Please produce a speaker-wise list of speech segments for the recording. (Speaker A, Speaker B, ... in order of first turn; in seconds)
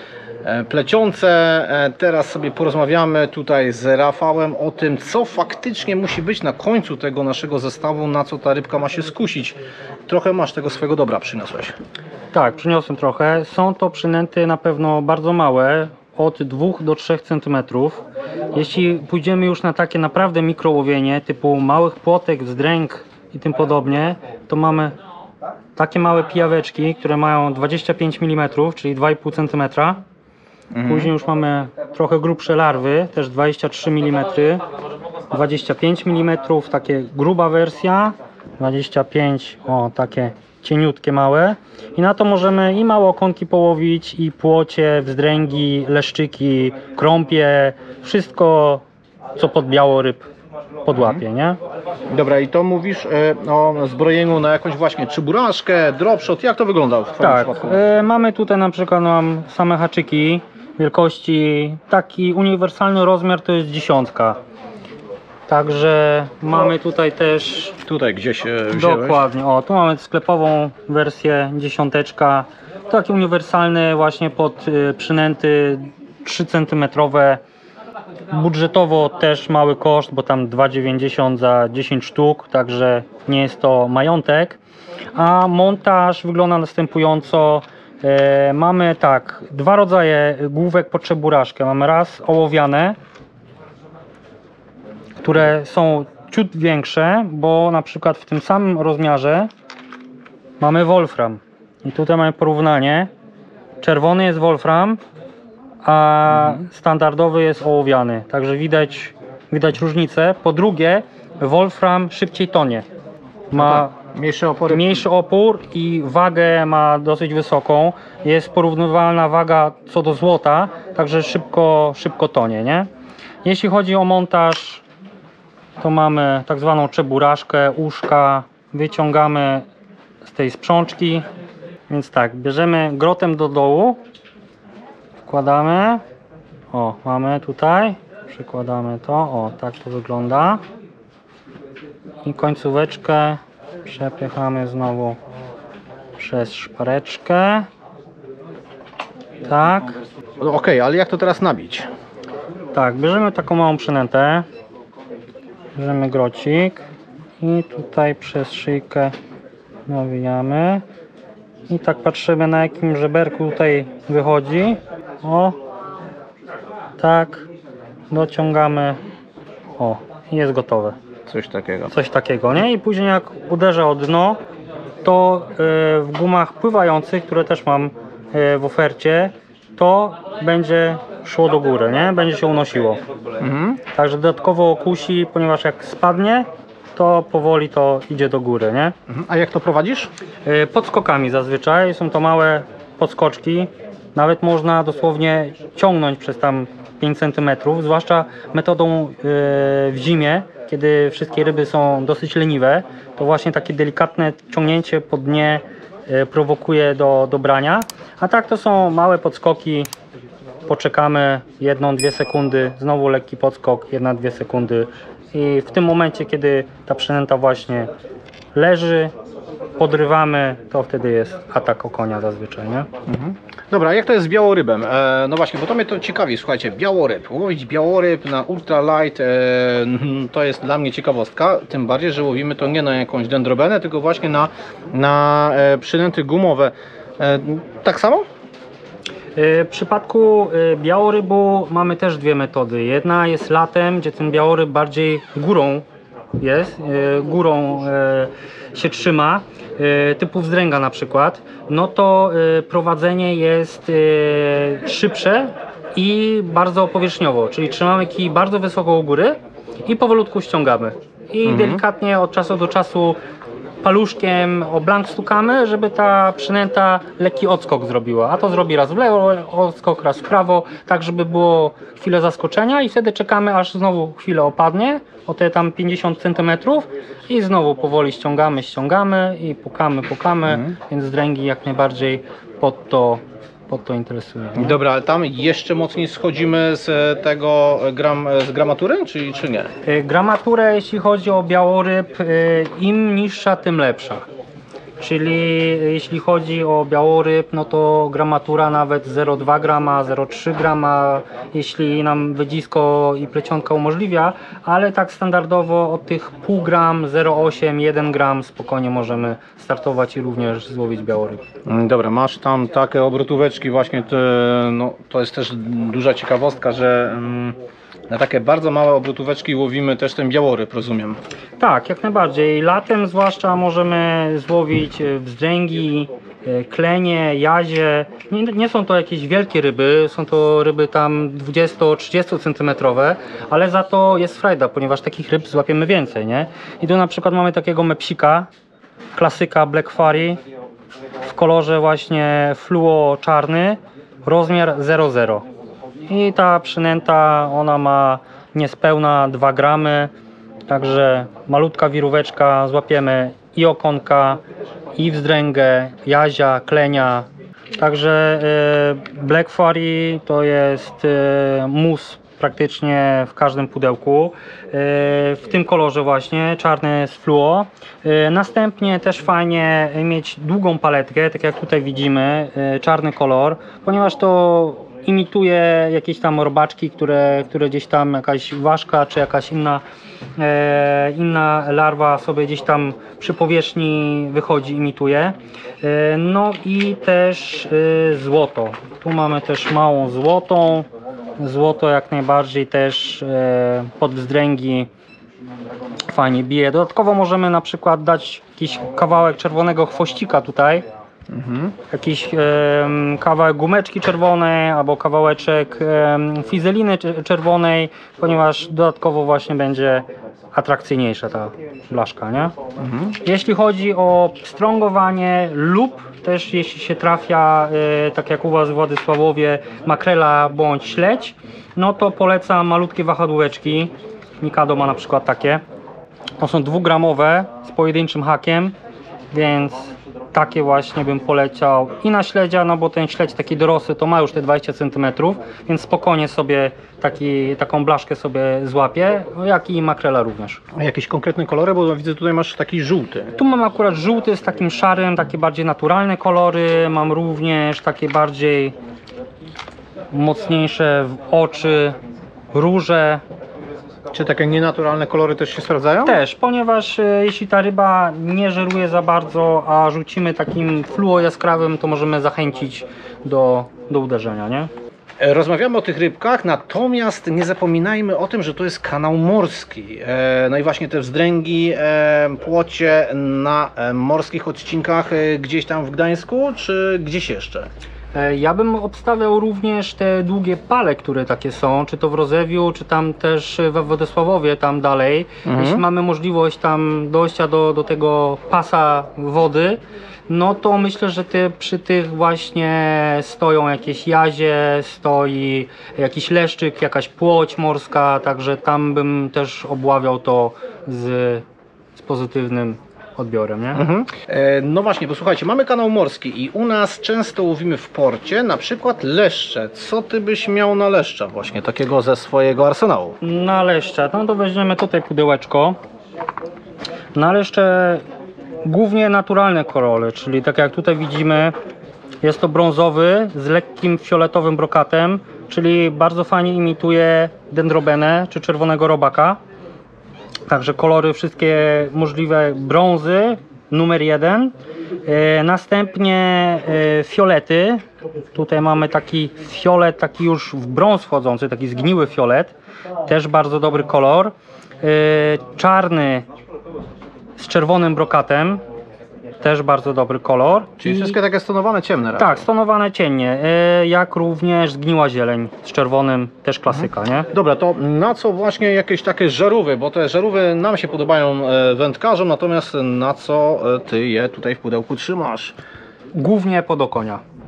Speaker A: 0.4-11.7, 30.7-31.1, 50.9-51.2, 52.1-57.8, 67.8-69.2, 106.3-106.6, 113.5-115.0, 150.4-151.9, 171.3-171.9, 183.4-183.8, 189.1-190.1, 223.1-238.2, 261.4-261.8, 284.5-289.7, 311.6-317.6, 318.1-321.2, 401.3-401.7, 412.8-413.1, 440.8-443.3, 454.1-456.2, 465.2-477.7, 485.4-485.8, 503.7-513.1, 550.8-552.4, 557.3-565.5
Speaker B: 12.3-24.9, 25.8-30.0, 30.8-34.6, 35.3-48.8, 49.4-50.2, 50.8-51.6, 57.2-64.4, 65.5-67.8, 68.7-77.4, 78.3-84.6, 85.1-93.0, 95.2-99.5, 100.6-103.1, 103.8-105.0, 105.8-112.8, 113.5-113.9, 114.7-122.9, 123.4-124.8, 125.8-129.6, 130.2-131.2, 131.9-134.0, 135.2-136.0, 136.7-140.6, 142.2-145.2, 146.2-147.7, 149.4-149.9, 152.7-154.4, 155.8-156.8, 157.4-159.1, 159.9-160.8, 161.7-165.6, 167.0-167.5, 168.1-169.0, 169.8-170.9, 171.9-174.4, 175.0-183.0, 183.9-188.9, 190.4-209.9, 210.6-217.9, 218.5-219.1, 219.8-222.9, 239.3-245.8, 246.4-263.2, 263.8-284.8, 289.8-294.2, 295.0-311.4, 321.6-338.5, 339.1-340.4, 341.2-345.4, 346.1-350.1, 350.7-354.4, 354.9-379.8, 380.4-390.9, 391.4-394.9, 396.1-400.8, 401.9-412.5, 413.2-425.6, 426.4-428.8, 429.3-440.6, 443.4-448.7, 450.1-451.9, 452.5-453.2, 456.0-464.7, 478.1-501.4, 501.9-503.8, 513.2-515.8, 517.1-518.0, 518.6-521.5, 522.2-529.4, 530.5-534.5, 535.0-537.8, 538.3-542.5, 543.0-546.2, 547.4-548.6, 549.4-551.2, 552.2-557.3, 566.1-567.2